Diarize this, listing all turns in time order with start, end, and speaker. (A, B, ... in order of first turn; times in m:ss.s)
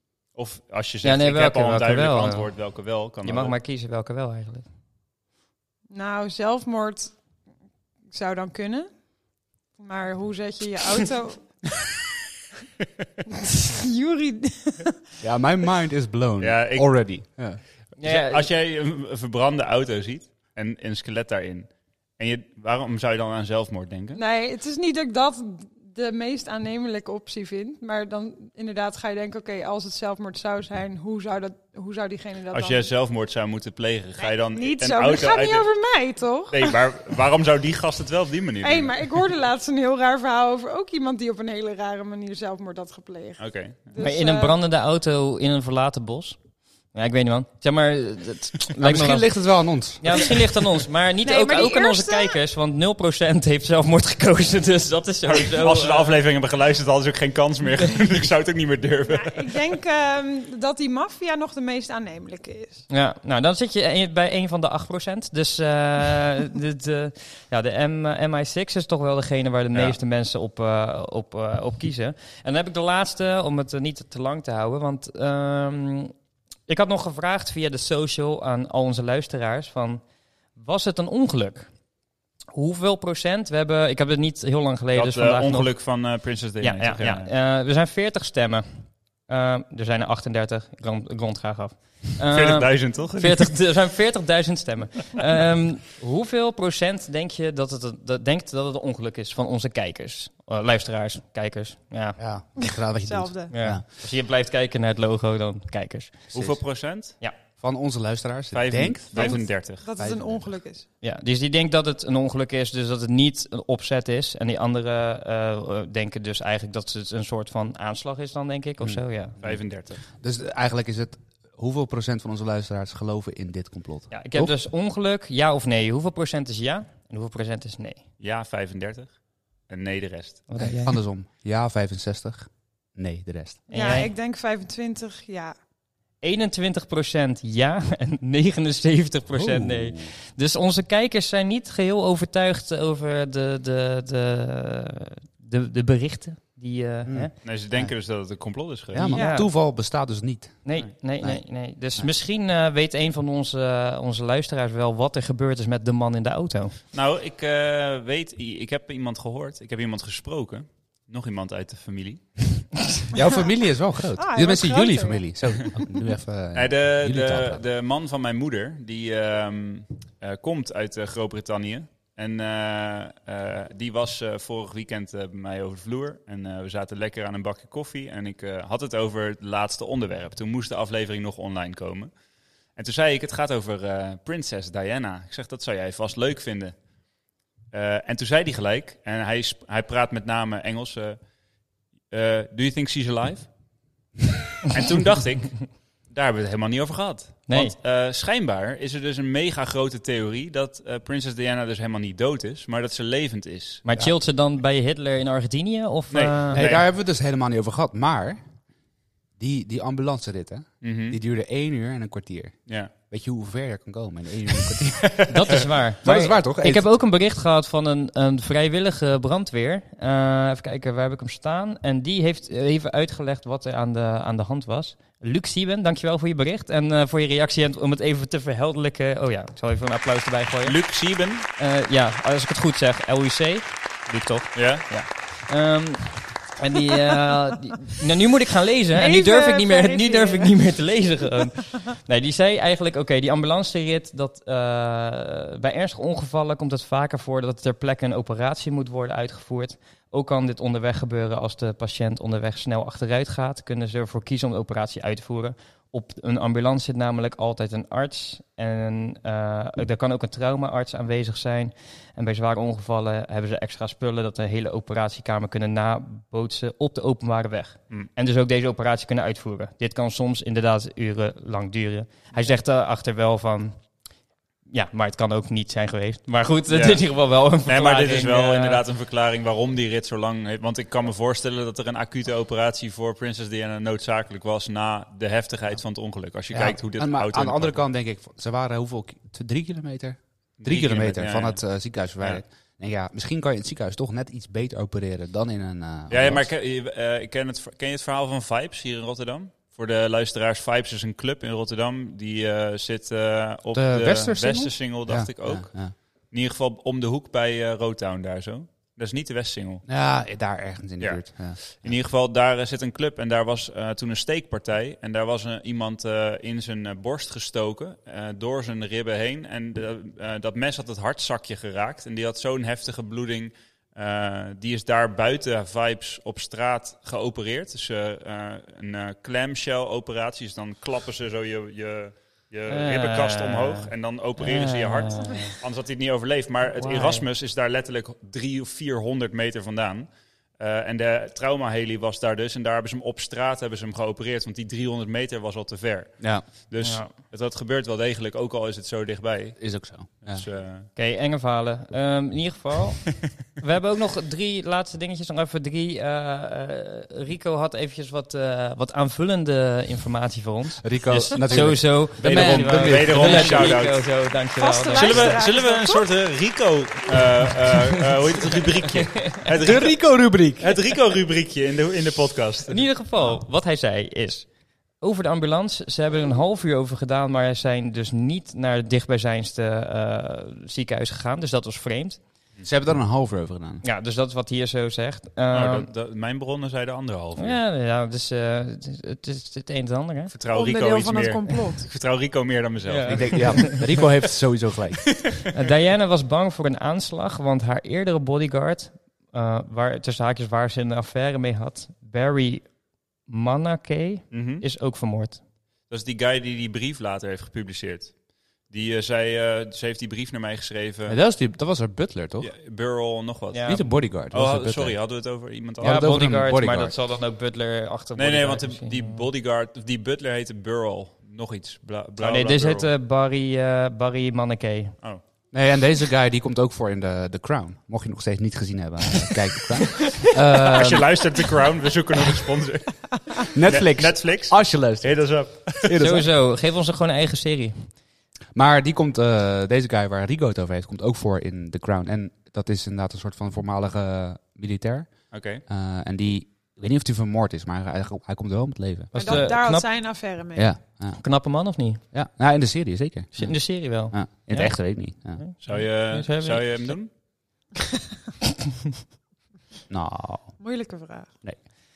0:00.4-0:03.6 A
0:01.0-0:02.5 B
0:03.2-0:04.7 B
0:05.9-0:07.2 C
0:08.1-0:08.9 C
0:09.8-0:11.7 C
0:13.3-0:15.0 C
0:15.2-0:17.6 D
0:16.4-0:17.1 A
0:18.0-0:18.5 B
0:18.0-0:24.2 A
0:24.2-0:32.9 C
0:32.5-0:35.7 A
0:34.2-0:36.8 C
0:36.5-0:39.0 A
0:38.6-0:44.6 C
0:43.4-0:43.8 A
0:44.0-0:46.4 B
0:46.9-0:49.3 B
0:48.8-0:50.4 D
0:50.0-0:56.1 B
0:51.2-0:52.4 C
0:55.3-0:59.5 A
0:59.1-1:02.8 C
1:02.9-1:16.1 B
1:16.7-1:20.0 B
1:20.6-1:21.7 B
1:22.5-1:25.8 B
1:24.9-1:27.3 A
1:26.6-1:42.2 B
1:32.3-1:33.6 A
1:42.2-1:43.8 D
1:43.0-1:43.5 C
1:43.5-1:46.2 B
1:46.3-1:47.2 A
1:47.6-1:50.6 D
1:48.5-1:49.9 A
1:49.1-1:50.9 C
1:51.0-1:59.4 B
1:58.8-1:59.6 D
1:59.4-2:00.0 A
2:00.1-2:04.5 D
2:04.1-2:08.0 B
2:08.2-2:09.2 A
2:09.7-2:10.5 A
2:10.5-2:11.0 B
2:10.6-2:13.6 D
2:13.7-2:14.1 B
2:13.7-2:15.6 C
2:16.2-2:27.3 B
2:19.3-2:20.1 D
2:27.0-2:27.9 D
2:27.4-2:29.1 A
2:28.9-2:32.1 D
2:29.1-2:29.5 B
2:29.1-2:29.4 C
2:30.6-2:36.8 B
2:36.9-2:42.7 A
2:43.1-2:47.6 D
2:44.2-2:45.7 C
2:46.5-3:02.1 A
3:02.8-3:06.8 A
3:07.7-3:11.2 A
3:12.1-3:13.5 A
3:14.7-3:23.8 A
3:17.5-3:17.8 B
3:23.8-3:26.7 B
3:26.1-3:26.8 A
3:26.5-3:28.4 D
3:29.4-3:36.9 D
3:30.8-3:31.2 A
3:35.3-3:50.9 B
3:50.6-3:51.5 A
3:51.6-4:33.8 B
3:54.6-3:55.0 A
3:59.0-4:00.6 C
4:34.7-4:38.8 B
4:36.7-4:47.8 A
4:46.5-4:56.5 D
4:50.6-4:51.6 A
4:56.1-5:09.8 A
5:03.7-5:05.9 D
5:09.9-5:11.9 D
5:11.0-5:50.9 A
5:32.7-5:35.6 B
5:36.7-5:37.2 B
5:46.2-5:46.5 D
5:46.8-5:47.1 B
5:49.6-5:50.5 D
5:51.0-6:05.4 B
6:00.8-6:03.8 D
6:01.7-6:04.1 A
6:04.6-6:06.1 C
6:04.9-6:12.9 A
6:09.0-6:09.4 B
6:09.6-6:10.8 D
6:12.7-6:14.5 B
6:15.0-6:22.2 B
6:22.6-6:23.8 D
6:23.8-6:25.9 B
6:25.5-6:27.6 A
6:27.4-6:30.3 B
6:30.3-6:33.9 A
6:30.5-6:31.9 C
6:32.9-6:33.8 B
6:33.1-6:35.3 D
6:35.5-6:42.7 B
6:43.3-6:45.4 B
6:44.3-6:44.6 A
6:45.9-6:51.2 A
6:51.1-6:52.5 D
6:52.4-6:56.2 A
6:53.5-6:53.8 B
6:53.7-6:55.0 D
6:55.8-6:57.0 D
6:55.8-6:59.2 B
6:58.2-7:02.9 A
7:02.2-7:05.0 B
7:05.5-7:11.4 D
7:10.6-7:16.0 A
7:13.5-7:16.3 D
7:16.0-7:17.9 B
7:18.5-7:29.5 D
7:25.3-7:25.6 A
7:29.1-7:29.9 B
7:29.1-7:30.7 C
7:30.6-7:31.2 D
7:31.1-7:32.0 B
7:32.1-7:35.4 D
7:33.3-7:37.0 B
7:35.6-7:37.1 A
7:39.9-7:40.6 D
7:40.6-7:41.3 C